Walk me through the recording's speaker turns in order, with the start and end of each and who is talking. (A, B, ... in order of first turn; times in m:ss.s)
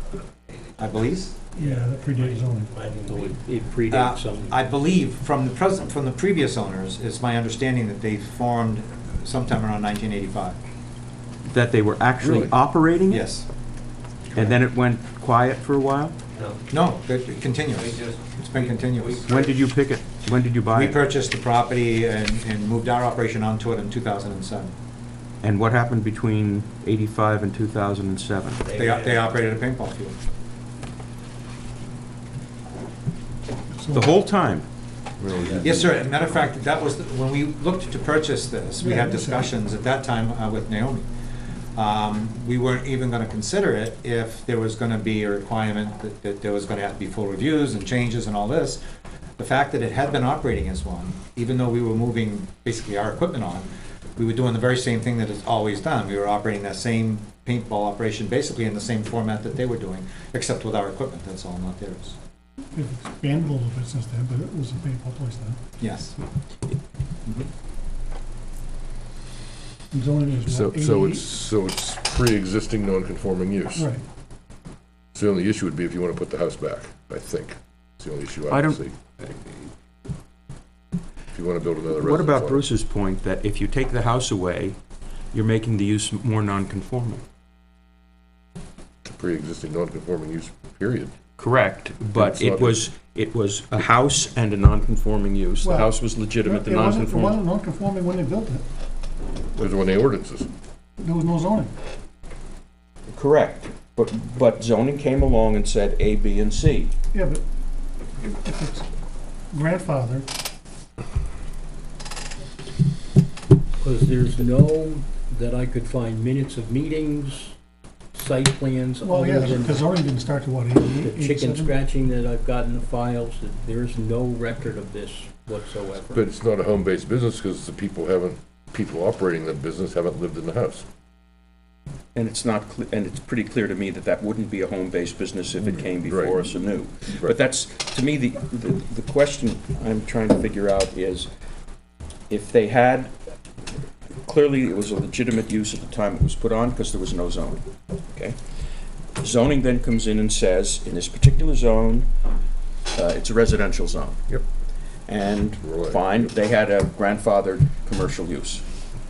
0:00.6-0:01.0 A
0:00.8-0:01.4 B
0:01.5-0:02.7 C
0:01.6-0:03.4 A
0:03.0-0:04.7 D
0:03.9-0:10.6 B
0:11.5-0:13.2 E
0:12.2-0:12.5 F
0:13.1-0:13.5 B
0:14.4-0:16.2 E
0:16.3-0:16.9 A
0:16.7-0:19.3 B
0:17.4-0:19.6 A
0:19.2-0:21.0 E
0:20.7-0:24.7 B
0:25.4-0:28.6 E
0:28.6-0:29.3 A
0:28.7-0:30.1 B
0:33.7-0:34.1 C
0:33.9-0:34.7 E
0:35.2-0:35.6 E
0:35.4-0:36.0 A
0:35.5-0:41.1 B
0:38.8-0:39.5 C
0:41.8-0:48.8 B
0:49.4-1:02.2 B
1:02.7-1:05.6 C
1:05.8-1:06.2 B
1:09.9-1:11.3 C
1:10.4-1:13.9 F
1:13.7-1:14.0 C
1:15.1-1:19.0 F
1:18.5-1:19.5 E
1:21.3-1:22.7 F
1:21.9-1:24.8 E
1:25.3-1:27.2 E
1:29.0-1:31.1 F
1:31.4-1:37.4 E
1:32.2-1:32.8 F
1:35.6-1:38.6 C
1:39.6-1:40.5 F
1:41.0-1:41.7 C
1:43.1-1:46.9 E
1:47.1-1:47.4 C
1:48.2-1:48.9 C
1:49.5-1:50.3 C
1:53.8-1:57.6 D
1:58.1-2:00.0 D
1:59.0-2:01.8 C
2:00.8-2:06.3 D
2:06.1-2:10.9 F
2:12.2-2:21.3 E
2:15.9-2:16.4 F
2:22.3-2:23.1 E
2:24.2-2:28.4 E
2:29.2-2:32.1 E
2:32.9-2:34.4 E
2:35.1-2:38.6 E
2:35.6-2:36.3 F